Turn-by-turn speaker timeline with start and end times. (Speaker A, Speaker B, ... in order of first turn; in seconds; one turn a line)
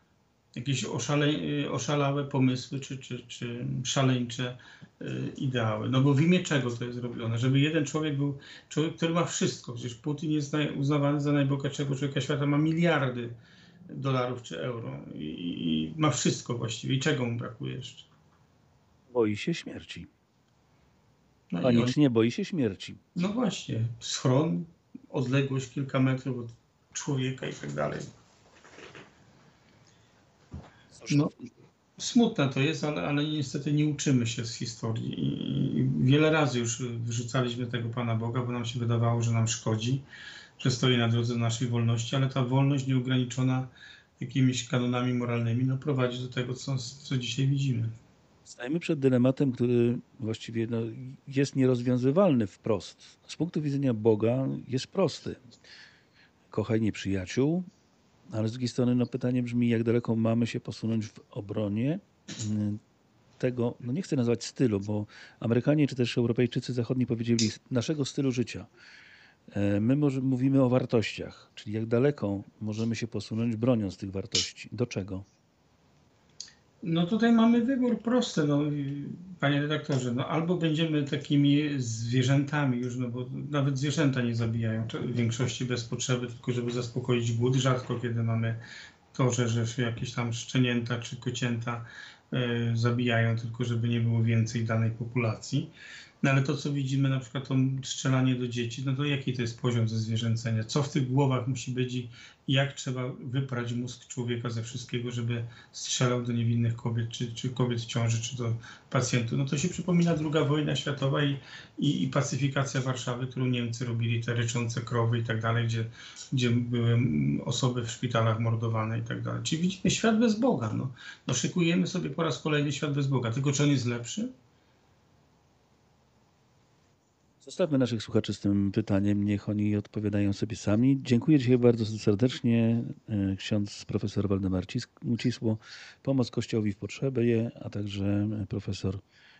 Speaker A: 0.6-13.4
Speaker A: 13.9-18.1
Speaker B: 19.1-20.1
Speaker A: 21.5-21.9
Speaker B: 21.6-23.0
Speaker A: 23.1-28.1
Speaker B: 31.0-31.3
Speaker A: 32.0-40.0
Speaker A: 40.6-47.9
Speaker B: 48.5-55.4
Speaker B: 56.5-57.7
Speaker B: 58.3-62.8
Speaker B: 63.4-68.7
Speaker B: 69.5-75.2
Speaker A: 76.8-88.6
Speaker A: 89.1-95.7
Speaker A: 96.2-124.3
Speaker B: 127.4-139.0